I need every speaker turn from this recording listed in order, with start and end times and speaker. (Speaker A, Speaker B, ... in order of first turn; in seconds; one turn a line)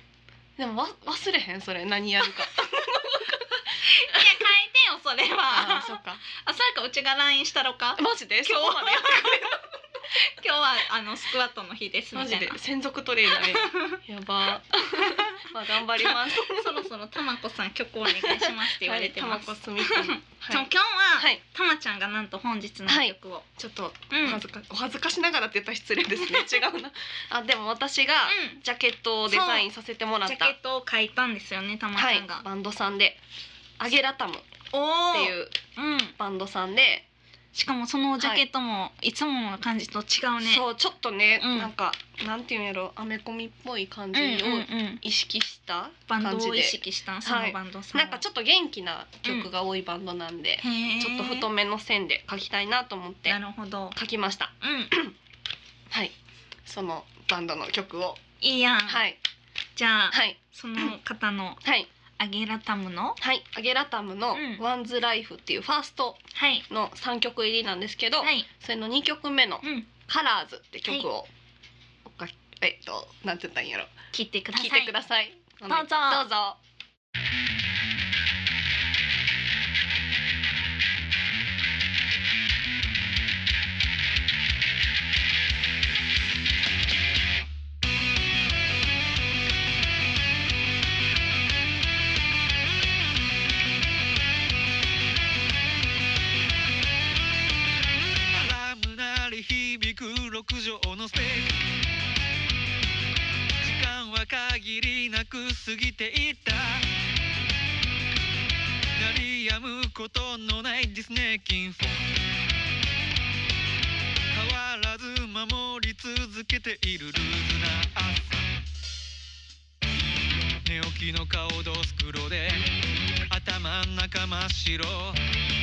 Speaker A: 0.6-3.4
Speaker B: 2.6-12.6
Speaker A: 4.1-4.4
Speaker A: 5.5-6.2
Speaker A: 8.0-9.6
Speaker A: 12.1-16.9
Speaker B: 13.3-14.0
Speaker B: 15.0-15.4
Speaker B: 15.9-23.4
Speaker A: 18.1-21.4
Speaker A: 22.9-30.6
Speaker B: 24.1-24.4
Speaker B: 26.2-26.5
Speaker B: 28.3-28.6
Speaker B: 29.3-29.7
Speaker B: 30.2-32.4
Speaker A: 31.9-33.2
Speaker A: 33.8-34.5
Speaker B: 34.7-36.1
Speaker A: 35.1-35.6
Speaker A: 36.2-37.0
Speaker B: 37.5-40.6
Speaker A: 38.2-38.4
Speaker A: 40.4-53.4
Speaker B: 41.4-41.7
Speaker B: 44.1-45.0
Speaker B: 46.1-48.2
Speaker B: 50.6-51.5
Speaker B: 53.3-54.0
Speaker A: 53.9-55.1
Speaker B: 54.6-54.9
Speaker A: 56.6-58.2
Speaker B: 58.4-59.0
Speaker A: 58.9-59.2
Speaker B: 59.8-61.6
Speaker A: 60.1-60.9
Speaker A: 61.6-61.9
Speaker B: 62.2-63.2
Speaker A: 63.2-71.3
Speaker B: 64.3-64.6
Speaker B: 66.3-66.6
Speaker B: 68.2-68.5
Speaker B: 69.6-69.9
Speaker A: 72.0-73.9
Speaker B: 74.1-74.9
Speaker A: 74.5-76.6
Speaker B: 75.7-76.2
Speaker C: 98.3-101.6
Speaker C: 103.6-106.8
Speaker C: 109.0-112.2
Speaker C: 114.3-118.5
Speaker C: 120.6-122.7
Speaker C: 123.3-125.2